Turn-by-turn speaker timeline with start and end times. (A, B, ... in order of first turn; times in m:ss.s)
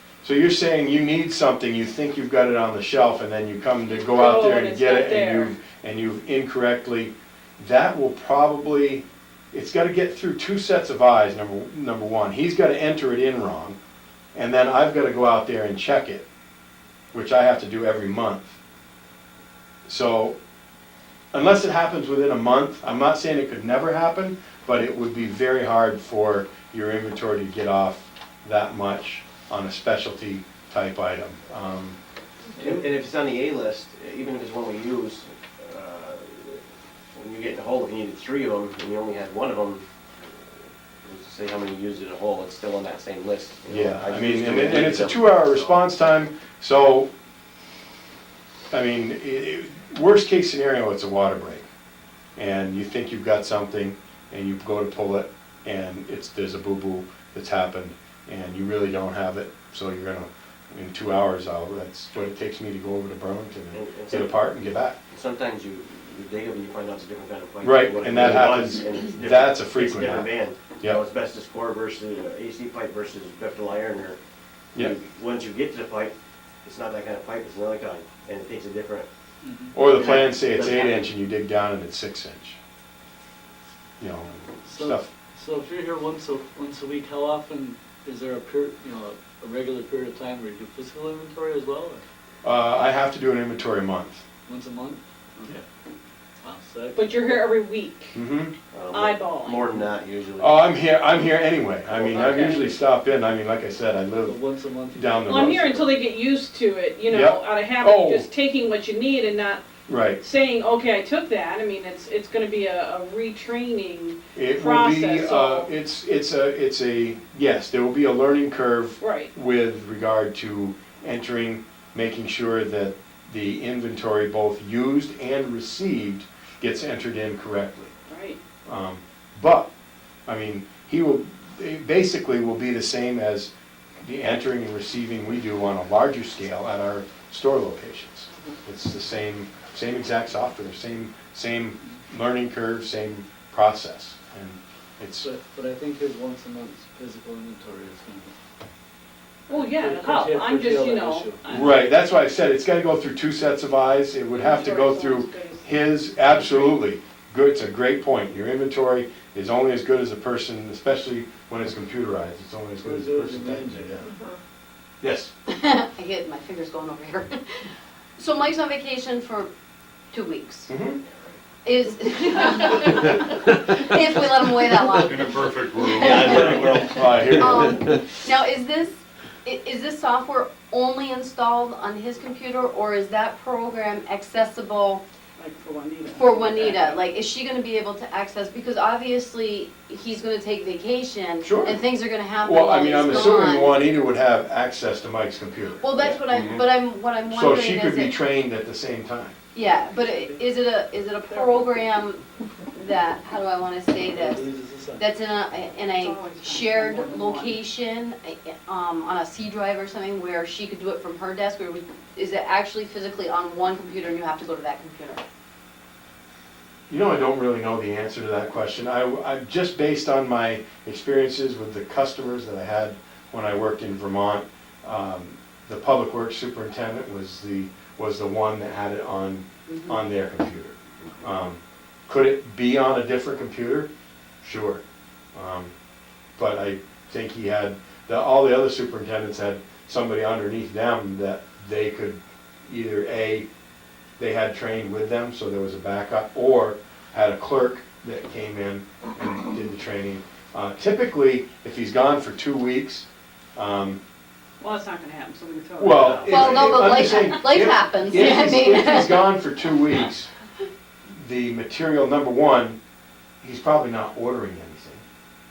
0:00.2-0:13.8 A
0:04.1-0:05.6 B
0:14.4-0:16.2 A
0:17.1-0:18.6 A
0:19.9-0:20.4 A
0:21.3-0:32.0 A
0:32.6-0:36.6 C
0:37.2-0:39.8 C
0:41.0-0:45.8 C
0:43.7-0:47.1 A
0:48.7-0:51.7 A
0:52.4-1:05.0 A
1:03.7-1:04.4 C
1:05.1-1:14.2 C
1:07.6-1:10.3 A
1:14.8-1:19.1 C
1:19.4-1:19.8 D
1:19.7-1:22.6 A
1:19.8-1:21.1 C
1:24.0-1:25.1 A
1:24.6-1:32.0 D
1:32.4-1:34.2 A
1:34.5-1:35.6 D
1:36.4-1:37.4 D
1:37.0-1:38.2 B
1:38.1-1:38.5 A
1:38.7-1:40.7 C
1:38.9-1:39.6 B
1:40.4-1:44.4 A
1:42.0-1:42.7 B
1:44.2-1:45.9 D
1:44.9-1:45.9 A
1:45.3-1:49.6 B
1:47.1-1:48.3 A
1:49.9-1:50.2 A
1:50.2-1:55.7 B
1:54.4-2:07.9 A
1:59.0-1:59.3 B
2:08.1-2:08.4 B
2:08.7-2:09.7 A
2:10.3-2:13.5 A
2:14.0-2:25.3 A
2:25.2-2:28.4 D
2:29.5-2:31.6 D
2:29.5-2:31.9 B
2:31.5-2:44.1 A
2:34.3-2:36.8 B
2:42.8-2:44.1 D
2:45.0-2:45.3 A
2:45.5-2:49.5 E
2:50.1-2:50.7 E
2:50.7-2:51.0 A
2:51.6-3:05.0 E
2:56.0-2:57.9 C
2:56.9-2:57.8 A
3:05.4-3:07.0 B
3:06.1-3:13.8 E
3:11.4-3:11.8 A
3:12.4-3:16.6 A
3:15.8-3:18.2 E
3:17.3-3:19.4 A
3:19.5-3:35.2 E
3:19.6-3:20.4 B
3:21.3-3:21.7 B
3:24.0-3:25.1 D
3:26.0-3:27.6 B
3:36.9-3:53.9 A
3:49.7-3:50.0 E
3:51.0-3:51.3 C
3:54.4-3:54.8 A
3:55.4-3:55.7 A
3:56.4-4:03.5 A
4:04.2-4:14.0 A
4:14.6-4:17.4 B
4:15.8-4:20.3 A
4:16.2-4:19.4 E
4:21.1-4:22.8 A
4:23.4-4:25.0 A